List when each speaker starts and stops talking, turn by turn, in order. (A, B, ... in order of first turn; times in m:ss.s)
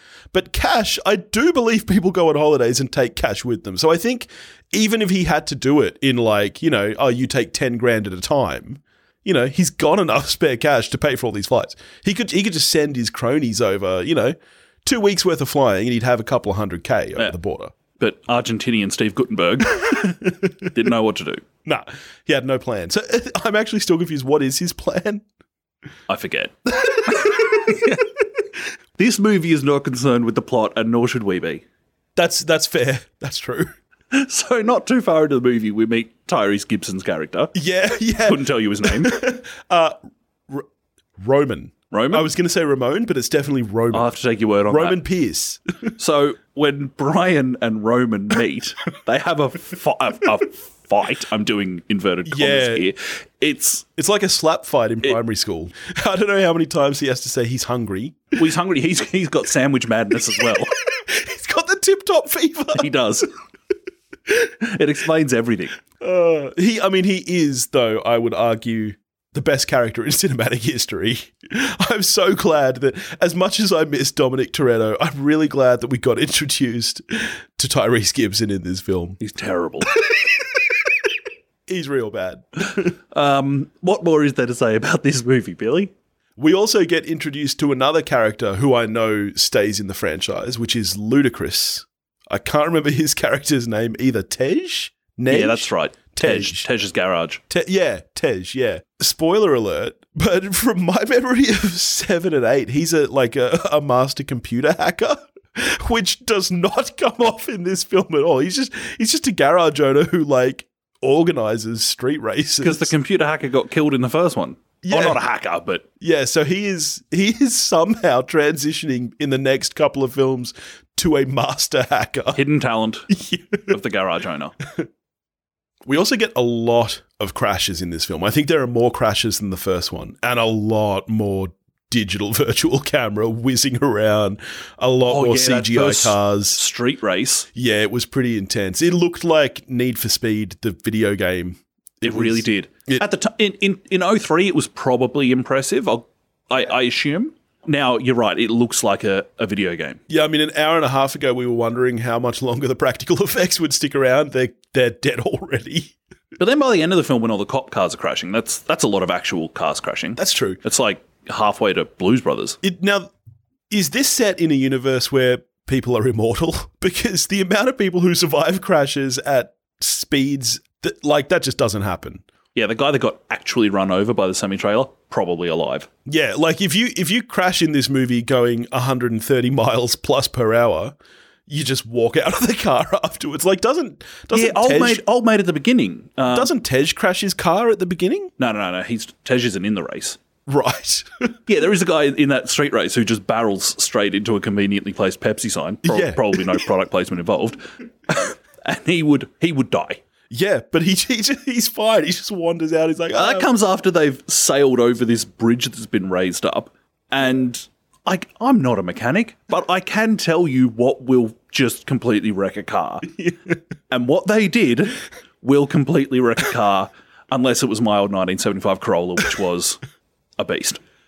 0:00.3-0:17.7 A
0:18.0-0:20.1 B
0:19.8-0:20.3 A
0:20.7-0:21.4 B
0:21.6-0:25.2 A
0:26.1-0:26.6 B
0:26.8-0:27.7 A
0:27.1-0:28.0 B
0:29.0-0:31.6 B
0:32.2-0:33.7 A
0:34.1-0:37.5 B
0:37.5-0:40.0 A
0:38.2-0:39.1 B
0:41.2-0:44.1 A
0:41.9-0:42.2 B
0:43.9-0:45.0 B
0:44.7-0:45.6 A
0:46.0-0:53.9 B
0:52.3-0:52.9 A
0:54.0-0:58.3 A
0:58.4-1:00.7 B
1:00.9-1:02.9 A
1:02.7-1:03.3 B
1:04.6-1:05.7 B
1:06.0-1:19.2 A
1:19.2-1:19.9 B
1:21.7-1:22.9 A
1:23.1-1:25.9 B
1:26.4-1:36.6 A
1:35.3-1:37.4 B
1:37.5-1:52.9 A
1:52.6-1:55.9 B
1:54.8-1:55.2 A
1:56.0-2:02.4 A
2:02.3-2:03.1 B
2:03.1-2:03.7 A
2:03.7-2:04.5 B
2:05.8-2:16.6 A
2:15.0-2:17.5 B
2:17.5-2:23.0 A
2:22.0-2:30.0 B
2:30.1-2:35.9 A
2:36.4-2:42.6 B
2:40.2-2:40.6 A
2:42.6-2:43.1 A
2:43.7-2:52.2 A
2:52.5-2:55.9 B
2:56.0-3:00.9 A
3:01.5-3:05.0 A
3:04.3-3:06.5 B
3:06.3-3:08.3 A
3:08.4-3:10.2 B
3:10.5-3:11.3 A
3:11.5-3:20.0 B
3:15.8-3:16.6 A
3:20.3-3:23.5 A
3:23.1-3:33.1 B
3:33.9-3:39.8 B
3:40.4-3:40.8 B